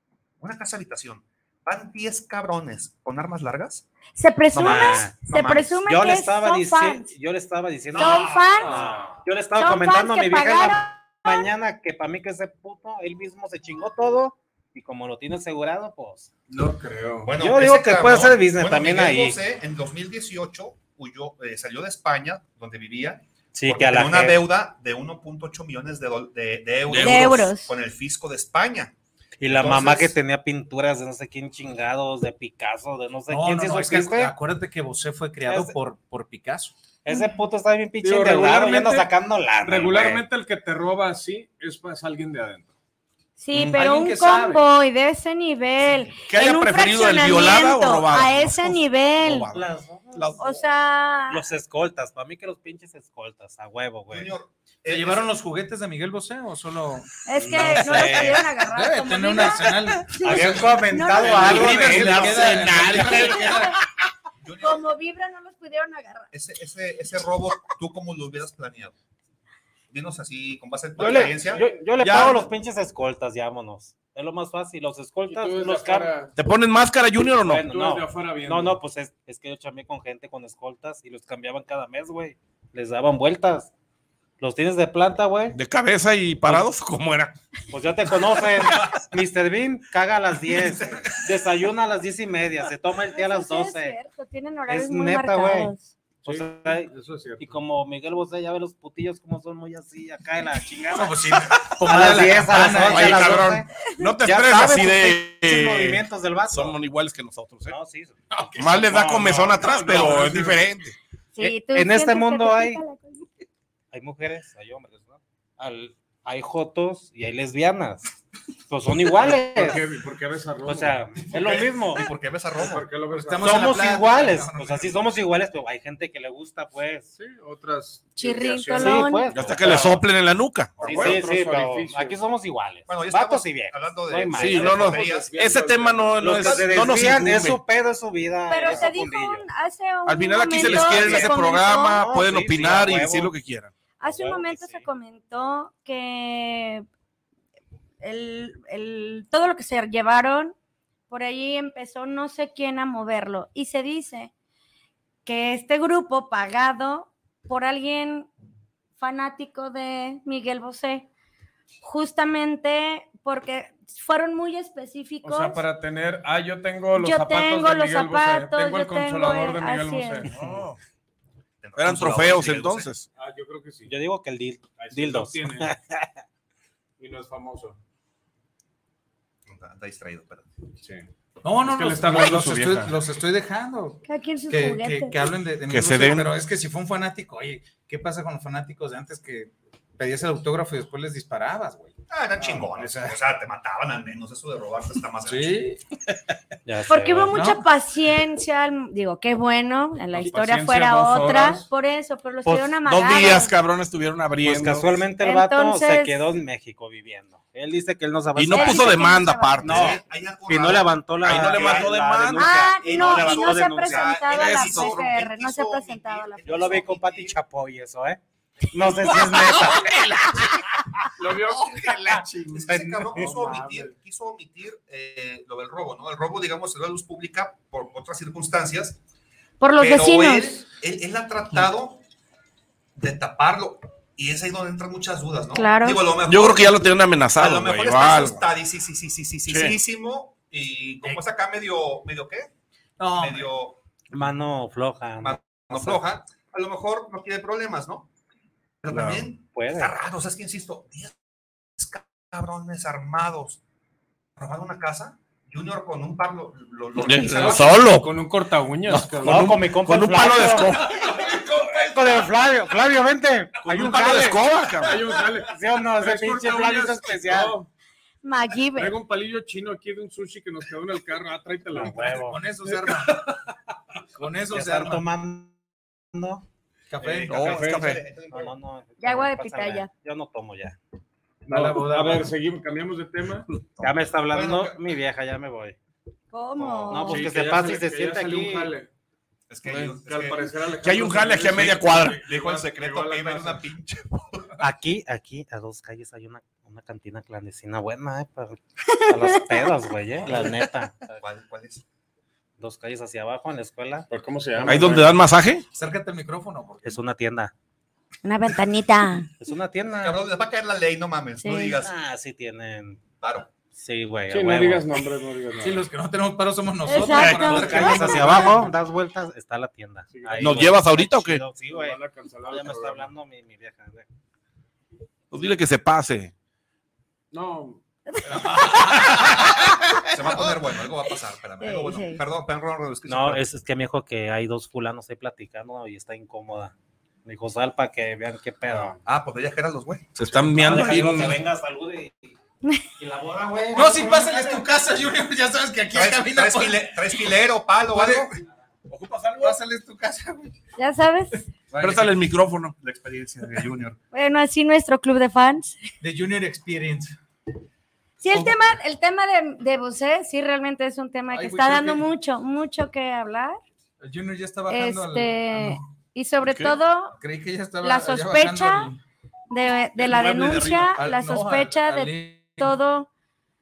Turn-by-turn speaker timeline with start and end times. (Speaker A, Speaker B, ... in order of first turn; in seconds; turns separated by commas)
Speaker A: 0.4-3.9, Speaker B: 4.2-7.1, Speaker A: 4.5-5.8, Speaker C: 4.6-5.2, Speaker C: 5.8-16.3, Speaker A: 8.0-8.5, Speaker B: 8.0-8.8, Speaker D: 8.1-9.2, Speaker B: 9.6-11.5, Speaker D: 16.5-17.3, Speaker A: 17.2-30.2, Speaker C: 17.3-19.4, Speaker C: 23.5-24.4, Speaker E: 26.9-27.4, Speaker B: 27.0-27.7, Speaker C: 29.4-34.3, Speaker F: 33.3-36.7, Speaker C: 35.5-35.7, Speaker C: 37.0-40.2, Speaker B: 37.1-37.4, Speaker D: 38.0-39.1, Speaker D: 39.6-42.7, Speaker B: 43.4-49.5, Speaker F: 43.5-44.6, Speaker E: 46.3-50.6, Speaker C: 49.5-50.4, Speaker B: 50.4-51.5, Speaker C: 51.3-54.4, Speaker A: 54.1-55.3, Speaker F: 54.9-60.7, Speaker B: 57.3-62.0, Speaker C: 57.3-58.5, Speaker C: 59.7-63.5, Speaker E: 61.2-63.6, Speaker F: 61.3-63.8, Speaker D: 61.4-62.1, Speaker A: 64.4-64.8, Speaker B: 64.6-66.3, Speaker A: 66.3-69.0, Speaker A: 69.9-71.7, Speaker C: 71.0-76.2, Speaker D: 71.0-72.5, Speaker D: 75.3-76.3, Speaker E: 76.4-77.7, Speaker C: 77.4-83.7, Speaker D: 77.6-78.8, Speaker C: 84.4-85.6, Speaker E: 85.5-87.4, Speaker C: 87.7-94.0, Speaker E: 88.7-89.0, Speaker A: 90.5-91.3, Speaker B: 93.1-95.9, Speaker C: 94.7-95.7, Speaker C: 96.2-101.2, Speaker D: 96.2-97.5, Speaker F: 100.9-103.5, Speaker C: 101.8-106.8, Speaker E: 102.6-107.8, Speaker C: 107.7-109.5, Speaker D: 108.4-110.7, Speaker E: 108.6-111.0, Speaker B: 111.4-113.3, Speaker C: 111.4-112.8, Speaker C: 113.9-118.1, Speaker C: 118.7-119.9, Speaker D: 119.2-121.3, Speaker C: 120.6-122.1, Speaker A: 121.3-122.9, Speaker D: 122.6-123.8, Speaker F: 123.1-125.0, Speaker C: 123.4-127.1, Speaker D: 127.2-129.9, Speaker B: 128.2-129.3, Speaker C: 128.7-130.0, Speaker E: 129.3-131.1, Speaker D: 130.8-132.2, Speaker C: 130.8-134.9, Speaker A: 130.8-131.2, Speaker A: 132.9-135.3, Speaker E: 134.3-137.6, Speaker D: 134.6-136.9, Speaker C: 136.2-139.5, Speaker B: 138.5-142.1, Speaker E: 140.1-143.7, Speaker C: 140.6-143.3, Speaker B: 144.0-146.8, Speaker C: 144.0-144.9, Speaker B: 148.0-150.6, Speaker B: 151.1-154.3, Speaker B: 155.3-158.3, Speaker B: 159.0-161.1, Speaker B: 161.8-165.6, Speaker D: 165.2-170.4, Speaker B: 167.0-170.3, Speaker E: 170.3-170.8, Speaker A: 171.6-172.9, Speaker E: 171.8-173.1, Speaker D: 173.2-173.9, Speaker C: 173.8-176.1, Speaker D: 174.8-175.7, Speaker D: 177.0-177.8, Speaker A: 179.5-180.5, Speaker F: 181.4-193.2, Speaker D: 181.7-182.9, Speaker B: 184.1-185.3, Speaker E: 185.7-186.3, Speaker A: 192.1-195.6, Speaker F: 195.3-195.8, Speaker C: 196.7-197.5, Speaker B: 196.9-203.5, Speaker F: 197.3-197.6, Speaker D: 200.1-201.7, Speaker E: 202.5-205.0, Speaker C: 204.4-214.3, Speaker B: 205.2-206.2, Speaker E: 208.4-210.0, Speaker B: 208.5-209.8, Speaker A: 209.6-212.0, Speaker E: 211.2-212.6, Speaker B: 212.3-216.9, Speaker A: 212.8-217.4, Speaker E: 214.3-215.0, Speaker C: 216.4-220.6, Speaker E: 219.3-220.3, Speaker D: 221.2-223.9, Speaker A: 222.5-229.0, Speaker C: 223.1-223.6, Speaker B: 229.6-230.6, Speaker A: 229.8-232.0, Speaker A: 233.0-236.8, Speaker B: 235.6-236.0, Speaker E: 236.3-238.4, Speaker A: 237.4-242.5, Speaker E: 239.5-239.8, Speaker F: 243.0-243.5, Speaker A: 243.2-243.8, Speaker C: 244.1-246.0, Speaker A: 245.2-248.1, Speaker A: 248.8-253.6, Speaker E: 248.9-249.3, Speaker C: 249.5-250.0, Speaker A: 254.4-257.8, Speaker E: 257.0-258.2, Speaker D: 257.2-259.6, Speaker E: 258.9-261.4, Speaker C: 259.1-264.4, Speaker E: 263.6-265.2, Speaker D: 263.7-267.7, Speaker C: 265.4-267.6, Speaker B: 268.2-269.0, Speaker D: 268.8-273.2, Speaker C: 271.7-272.4, Speaker F: 272.1-273.4, Speaker F: 274.1-275.1, Speaker C: 274.5-275.6, Speaker C: 276.1-276.4, Speaker F: 276.9-277.4, Speaker A: 277.0-278.6, Speaker E: 277.3-278.0, Speaker D: 277.3-278.0, Speaker C: 278.3-280.8, Speaker B: 279.0-279.9, Speaker F: 281.5-282.3, Speaker D: 281.5-283.5, Speaker E: 283.6-284.0, Speaker C: 283.8-285.8, Speaker A: 284.3-284.8, Speaker B: 286.3-287.3, Speaker C: 286.6-288.8, Speaker D: 287.0-288.9, Speaker A: 289.5-290.5, Speaker E: 289.7-289.9, Speaker D: 289.8-293.6, Speaker E: 290.8-292.3, Speaker A: 292.2-294.6, Speaker C: 294.6-301.2, Speaker B: 298.9-299.7, Speaker A: 301.2-301.8, Speaker C: 302.6-304.1, Speaker D: 304.1-305.2, Speaker E: 304.6-305.6, Speaker F: 305.7-307.0, Speaker C: 306.8-307.5, Speaker B: 308.2-309.3, Speaker C: 309.4-310.2, Speaker A: 310.0-311.9, Speaker B: 311.4-311.8, Speaker C: 311.8-313.0, Speaker A: 313.2-313.5, Speaker C: 313.7-315.0, Speaker D: 314.3-315.9, Speaker F: 315.6-318.7, Speaker B: 316.9-318.4, Speaker C: 317.2-324.1, Speaker D: 320.1-320.8, Speaker E: 320.4-321.4, Speaker D: 321.7-323.1, Speaker E: 325.3-326.3, Speaker D: 327.3-327.8, Speaker B: 328.1-329.9, Speaker F: 328.3-329.4, Speaker A: 330.1-333.5, Speaker B: 331.6-332.2, Speaker C: 333.1-336.7, Speaker C: 337.2-339.0, Speaker A: 339.0-340.2, Speaker E: 340.2-341.4, Speaker C: 340.4-342.3, Speaker C: 343.0-344.6, Speaker F: 343.7-347.2, Speaker A: 345.9-348.3, Speaker F: 347.9-348.3, Speaker E: 348.9-349.6, Speaker F: 349.4-350.6, Speaker B: 350.8-351.4, Speaker F: 351.7-352.1, Speaker E: 351.8-352.8, Speaker A: 352.8-354.0, Speaker B: 354.1-355.8, Speaker F: 356.0-357.1, Speaker B: 358.2-363.6, Speaker F: 361.3-362.1, Speaker F: 364.0-365.9, Speaker B: 364.7-367.2, Speaker E: 366.4-366.8, Speaker F: 367.2-369.0, Speaker B: 367.8-368.9, Speaker B: 369.5-373.1, Speaker E: 370.0-371.0, Speaker F: 370.5-372.8